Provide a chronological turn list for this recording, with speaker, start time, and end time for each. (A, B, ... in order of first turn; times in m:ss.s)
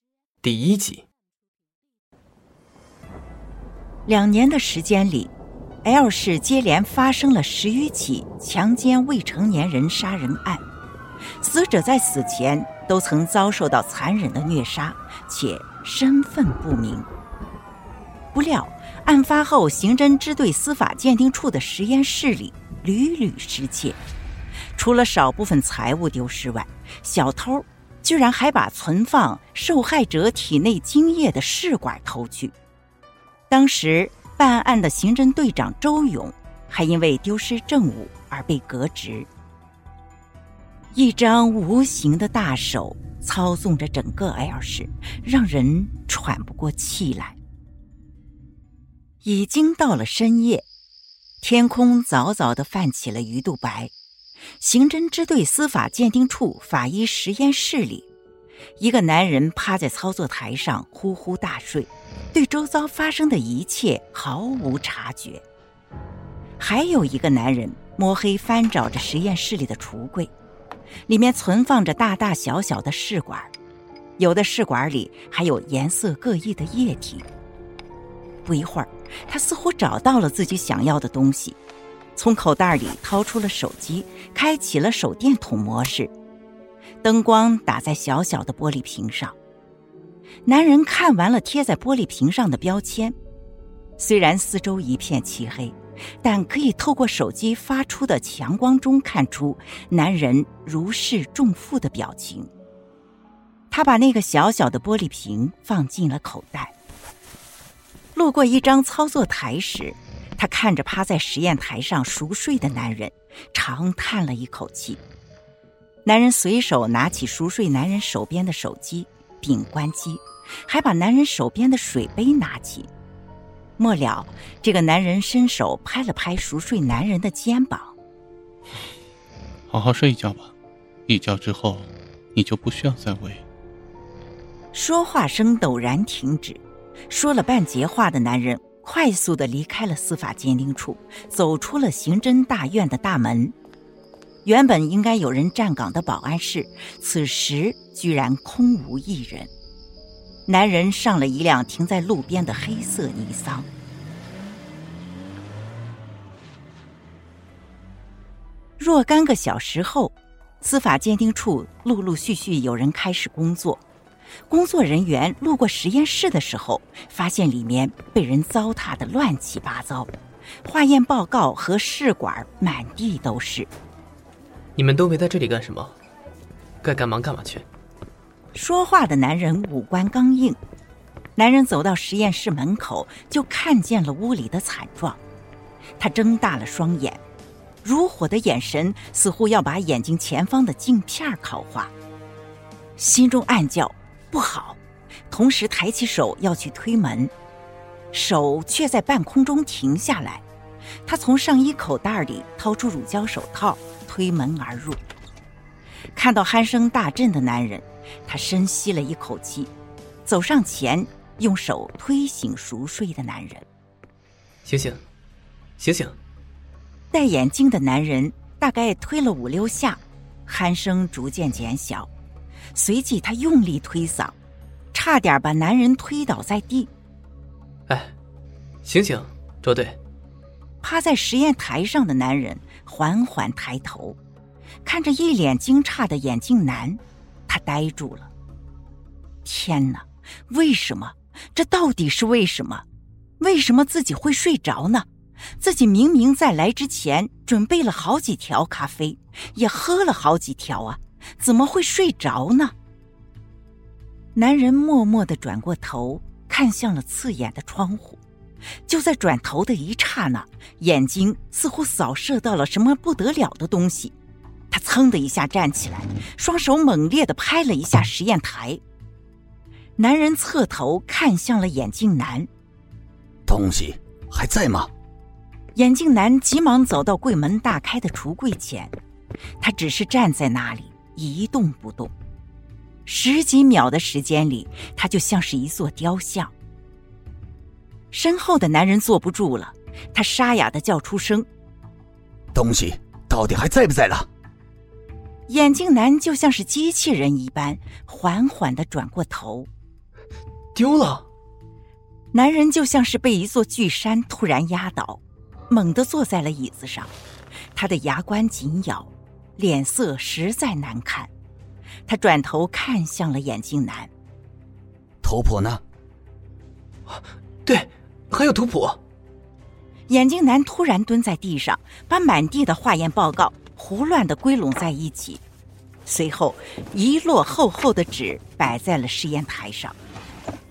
0:00.4-0:01.0 A
0:04.1-0:05.3 B
0:05.8-0:10.6 B
0:11.4-0:17.1 B
0:18.3-0:24.0 B
0:24.8-0:32.5 B
0:33.5-0:39.3 B
0:40.9-0:47.4 B
0:49.2-0:50.6 B
0:51.4-0:53.9 B
0:54.6-0:58.0 B
0:58.8-1:05.4 B
1:06.6-1:10.3 B
1:11.1-1:13.5 B
1:14.2-1:17.2 B
1:18.4-1:21.6 B
1:22.2-1:26.1 B
1:27.0-1:29.3 B
1:30.4-1:33.2 B
1:34.0-1:42.5 B
1:43.7-1:46.7 B
1:48.1-1:55.0 B
1:56.0-2:02.9 B
2:03.8-2:07.9 B
2:09.7-2:10.5 C
2:11.1-2:13.4 C
2:14.7-2:23.5 B
2:24.4-2:29.5 B
2:30.5-2:33.6 B
2:38.8-2:43.8 B
2:44.5-2:50.1 B
2:50.6-2:53.7 B
2:54.8-2:56.0 A
2:56.8-2:57.6 A
2:58.5-3:00.6 B
3:01.4-3:05.2 B
3:06.0-3:07.2 B
3:07.8-3:11.9 B
3:13.0-3:14.8 B
3:15.3-3:17.3 B
3:18.1-3:20.4 B
3:21.0-3:25.0 B
3:26.1-3:29.7 B
3:30.2-3:33.6 B
3:34.6-3:35.0 A
3:35.8-3:36.2 A
3:37.1-3:42.1 B
3:42.7-3:44.3 B
3:44.9-3:46.9 B
3:47.9-3:48.1 A
3:48.8-3:50.0 A
3:50.8-3:54.2 B
3:54.8-3:58.3 B
3:59.4-4:02.8 B
4:03.4-4:05.0 B
4:05.6-4:12.7 B
4:14.3-4:18.2 B
4:18.9-4:24.1 B
4:24.7-4:28.8 B
4:30.0-4:32.5 B
4:33.5-4:34.9 D
4:35.7-4:38.9 B
4:39.6-4:42.1 B
4:43.0-4:46.5 B
4:48.1-4:51.4 B
4:52.5-4:54.3 D
4:55.5-4:59.7 B
5:00.7-5:01.3 A
5:02.3-5:07.1 B
5:07.7-5:11.3 B
5:12.1-5:14.1 B
5:15.2-5:15.8 D
5:17.1-5:19.0 A
5:20.1-5:25.4 B
5:26.0-5:29.9 B